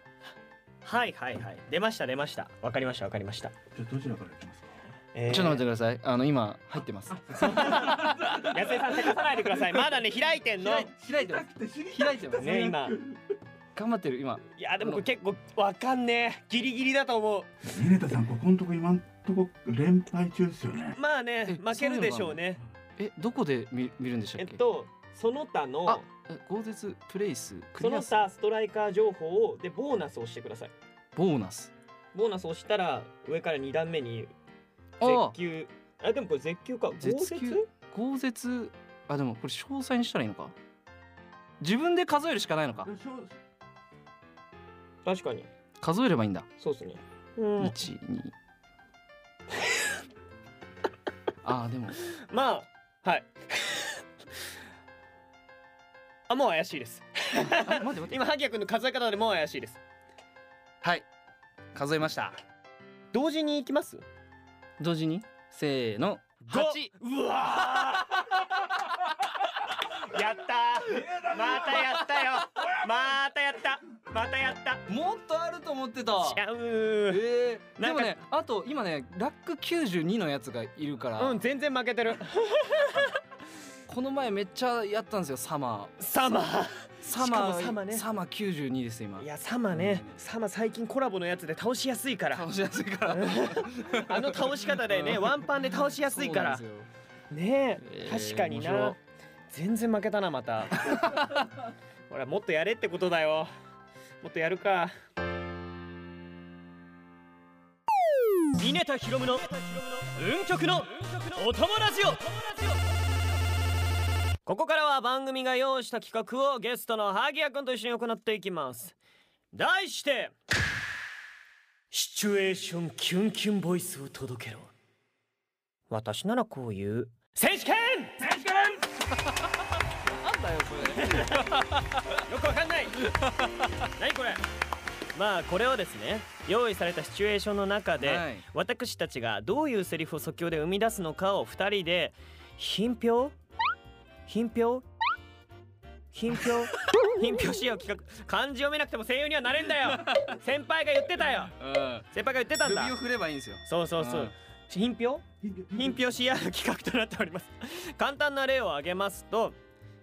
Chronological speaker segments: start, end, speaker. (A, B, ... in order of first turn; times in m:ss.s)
0:00.8-0:03.5 A
0:03.8-0:04.8 B
0:05.1-0:05.6 A
0:05.3-0:07.9 C
0:07.2-0:08.6 B
0:07.4-0:10.9 A
0:10.6-0:12.7 C
0:10.9-0:13.2 B
0:12.3-0:13.0 A
0:13.8-0:15.0 C
0:14.5-0:17.5 A
0:17.7-0:21.0 B
0:21.0-0:22.6 A
0:21.5-0:22.4 C
0:23.0-0:24.6 C
0:24.4-0:26.1 A
0:25.9-0:28.2 C
0:27.8-0:30.7 A
0:31.2-0:31.7 C
0:32.1-0:34.3 A
0:35.0-0:35.4 C
0:35.0-0:37.7 A
0:37.0-0:40.6 C
0:41.6-0:42.9 C
0:42.8-0:43.3 B
0:45.0-0:45.5 A
0:45.8-0:46.5 C
0:46.6-0:47.8 A
0:47.6-0:48.3 C
0:51.4-0:52.0 C
0:52.0-0:54.0 A
0:56.3-0:59.8 A
0:57.5-0:58.2 C
1:00.8-1:01.1 C
1:01.7-1:02.4 C
1:03.1-1:04.0 A
1:04.8-1:06.9 C
1:06.5-1:08.7 A
1:09.8-1:14.8 A
1:11.0-1:11.9 B
1:14.9-1:16.4 C
1:16.2-1:17.2 A
1:17.1-1:21.4 C
1:17.8-1:18.2 A
1:21.2-1:23.2 A
1:23.9-1:25.9 C
1:26.0-1:28.1 A
1:27.0-1:30.1 C
1:29.2-1:32.5 A
1:32.3-1:36.9 C
1:33.1-1:36.6 A
1:37.3-1:39.0 A
1:37.8-1:39.0 C
1:39.5-1:41.1 A
1:40.8-1:41.5 C
1:42.1-1:43.5 A
1:44.2-1:44.9 A
1:48.6-1:52.8 A
1:54.5-1:59.0 A
1:59.5-2:00.4 A
2:01.9-2:04.7 A
2:05.9-2:08.4 A
2:08.8-2:12.2 C
2:10.9-2:11.5 A
2:12.2-2:13.0 A
2:13.0-2:13.7 C
2:14.0-2:14.4 A
2:15.1-2:23.4 A
2:18.0-2:18.4 C
2:24.3-2:24.9 A
2:26.1-2:31.6 A
2:29.8-2:30.4 C
2:31.6-2:32.1 C
2:32.1-2:33.0 A
2:32.6-2:34.3 C
2:33.6-2:39.6 A
2:35.4-2:36.0 B